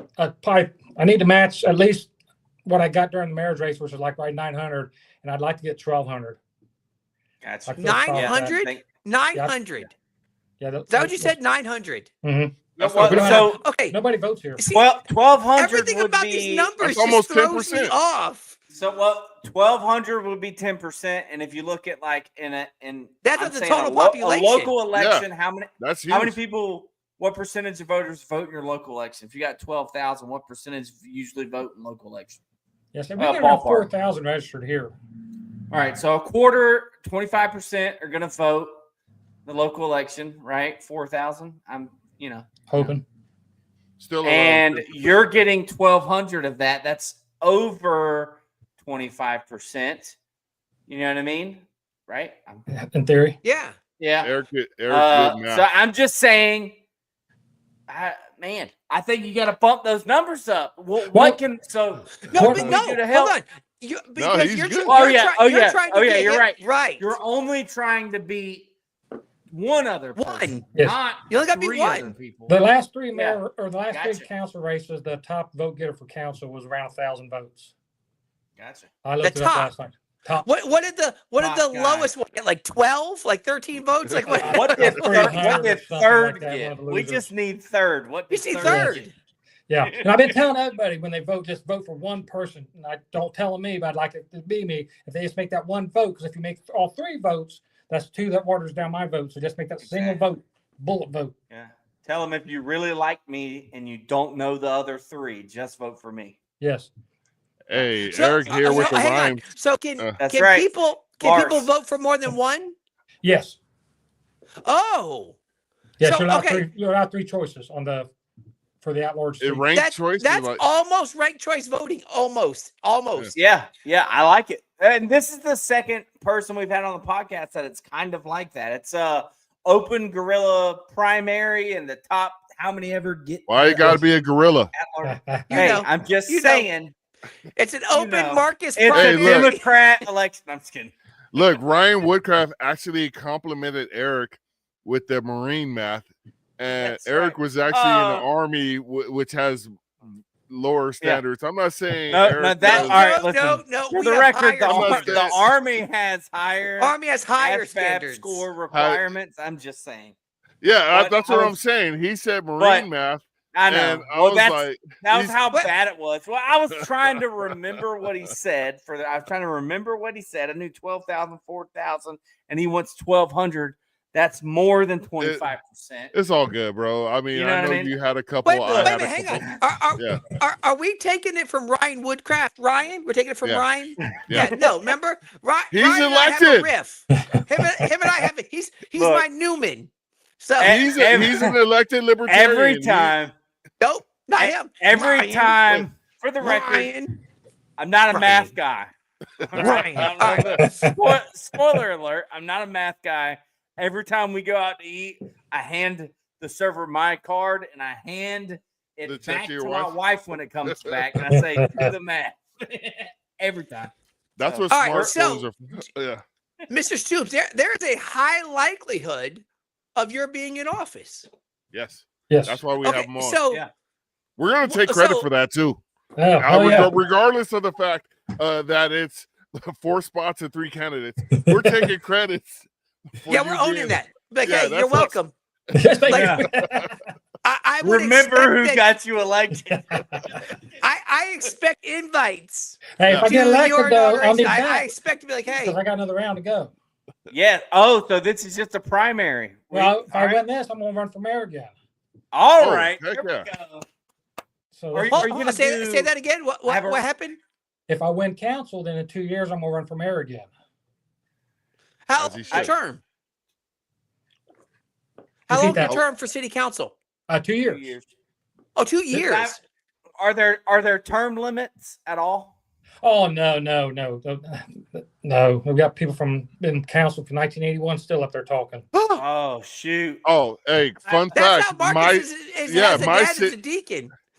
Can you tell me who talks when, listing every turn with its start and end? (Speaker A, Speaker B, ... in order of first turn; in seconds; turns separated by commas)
Speaker A: 0.2-2.1, Speaker A: 2.6-6.4, Speaker B: 7.4-8.8, Speaker A: 7.7-8.6, Speaker C: 7.8-9.9, Speaker A: 10.6-11.4, Speaker C: 10.9-12.1, Speaker A: 12.2-14.6, Speaker D: 12.8-13.5, Speaker B: 12.8-13.6, Speaker C: 13.4-14.0, Speaker C: 14.6-14.9, Speaker B: 14.7-16.7, Speaker C: 15.6-18.5, Speaker D: 16.8-18.0, Speaker B: 18.7-32.4, Speaker C: 23.2-24.7, Speaker D: 24.9-25.2, Speaker D: 25.8-26.4, Speaker A: 32.9-34.9, Speaker B: 33.2-33.9, Speaker B: 35.7-38.7, Speaker B: 39.5-42.9, Speaker A: 42.7-43.0, Speaker D: 44.0-45.3, Speaker B: 44.2-50.1, Speaker B: 50.9-52.6, Speaker A: 52.7-53.4, Speaker C: 53.4-53.8, Speaker B: 54.0-54.3, Speaker D: 54.2-55.6, Speaker B: 54.9-56.8, Speaker B: 57.9-63.4, Speaker A: 61.1-61.4, Speaker C: 62.3-67.1, Speaker A: 62.3-62.8, Speaker D: 64.2-65.0, Speaker B: 64.8-68.7, Speaker B: 69.5-72.6, Speaker C: 70.2-70.6, Speaker C: 71.3-72.1, Speaker A: 72.5-77.7, Speaker B: 73.1-73.4, Speaker B: 73.9-74.3, Speaker B: 78.6-78.9, Speaker A: 79.0-80.5, Speaker C: 79.2-79.7, Speaker C: 80.4-85.7, Speaker B: 81.4-82.1, Speaker B: 84.3-89.0, Speaker A: 84.4-87.3, Speaker C: 88.3-89.1, Speaker A: 88.6-89.0, Speaker A: 89.7-101.3, Speaker B: 89.8-90.4, Speaker B: 99.8-100.2, Speaker B: 101.5-106.4, Speaker A: 106.6-106.9, Speaker D: 107.7-109.4, Speaker C: 108.1-112.8, Speaker B: 110.2-111.7, Speaker A: 113.2-113.6, Speaker C: 114.6-115.4, Speaker A: 116.0-118.1, Speaker C: 116.0-116.7, Speaker A: 118.8-119.7, Speaker D: 119.4-120.6, Speaker C: 119.7-123.3, Speaker B: 123.3-134.0, Speaker D: 133.5-134.7, Speaker B: 134.7-136.9, Speaker A: 135.0-135.7, Speaker C: 135.5-136.7, Speaker C: 137.6-139.7, Speaker B: 137.9-140.9, Speaker D: 138.9-139.5, Speaker D: 141.3-149.7, Speaker B: 146.8-148.2, Speaker D: 150.4-153.0, Speaker B: 152.1-160.2, Speaker C: 152.6-155.4, Speaker D: 154.7-155.4, Speaker C: 156.8-158.4, Speaker D: 158.7-159.0, Speaker D: 160.6-165.3, Speaker B: 160.9-161.6, Speaker B: 162.6-162.9, Speaker B: 163.5-176.1, Speaker D: 175.2-175.5, Speaker D: 176.1-180.3, Speaker B: 177.3-177.9, Speaker C: 178.4-190.8, Speaker B: 178.7-179.6, Speaker D: 184.2-184.5, Speaker B: 184.3-184.6, Speaker D: 185.7-186.7, Speaker A: 187.2-187.8, Speaker B: 188.9-189.2, Speaker B: 190.6-191.5, Speaker D: 190.6-193.1, Speaker B: 192.3-193.3, Speaker C: 193.8-195.8, Speaker B: 194.4-196.9, Speaker C: 196.4-197.2, Speaker B: 197.8-215.2, Speaker C: 198.1-198.5, Speaker C: 199.6-200.6, Speaker D: 199.9-200.6, Speaker A: 200.6-200.9, Speaker D: 209.1-210.0, Speaker D: 210.6-211.0, Speaker A: 211.3-211.9, Speaker D: 214.4-216.2, Speaker C: 214.7-215.5, Speaker C: 216.7-219.4, Speaker C: 219.9-221.3, Speaker D: 221.7-223.4, Speaker A: 222.3-222.6, Speaker C: 222.8-223.6, Speaker D: 224.4-225.8, Speaker C: 224.6-225.3, Speaker A: 226.2-226.9, Speaker D: 226.4-235.2, Speaker A: 231.3-231.9, Speaker C: 233.3-235.3, Speaker A: 235.7-237.0, Speaker C: 236.0-236.4, Speaker B: 236.1-236.5, Speaker C: 237.4-238.8, Speaker B: 237.8-240.4, Speaker A: 239.7-240.4, Speaker C: 240.8-245.8, Speaker A: 243.0-244.9, Speaker D: 243.0-243.3, Speaker A: 245.5-246.7, Speaker B: 247.3-250.4, Speaker A: 249.7-251.7, Speaker B: 252.3-253.8, Speaker D: 252.6-253.5, Speaker A: 254.7-255.3, Speaker B: 254.9-256.1, Speaker C: 255.1-257.4, Speaker B: 256.6-257.0, Speaker A: 257.9-260.5, Speaker C: 262.1-263.0, Speaker D: 262.2-262.7, Speaker C: 265.5-266.9, Speaker A: 265.5-266.0, Speaker A: 267.3-267.9, Speaker B: 267.6-268.1, Speaker C: 268.8-269.6, Speaker B: 269.1-269.6, Speaker B: 270.2-272.6, Speaker A: 273.0-278.9, Speaker C: 278.9-279.2, Speaker B: 279.1-280.2, Speaker D: 280.2-283.6, Speaker B: 281.1-281.4, Speaker C: 281.3-284.1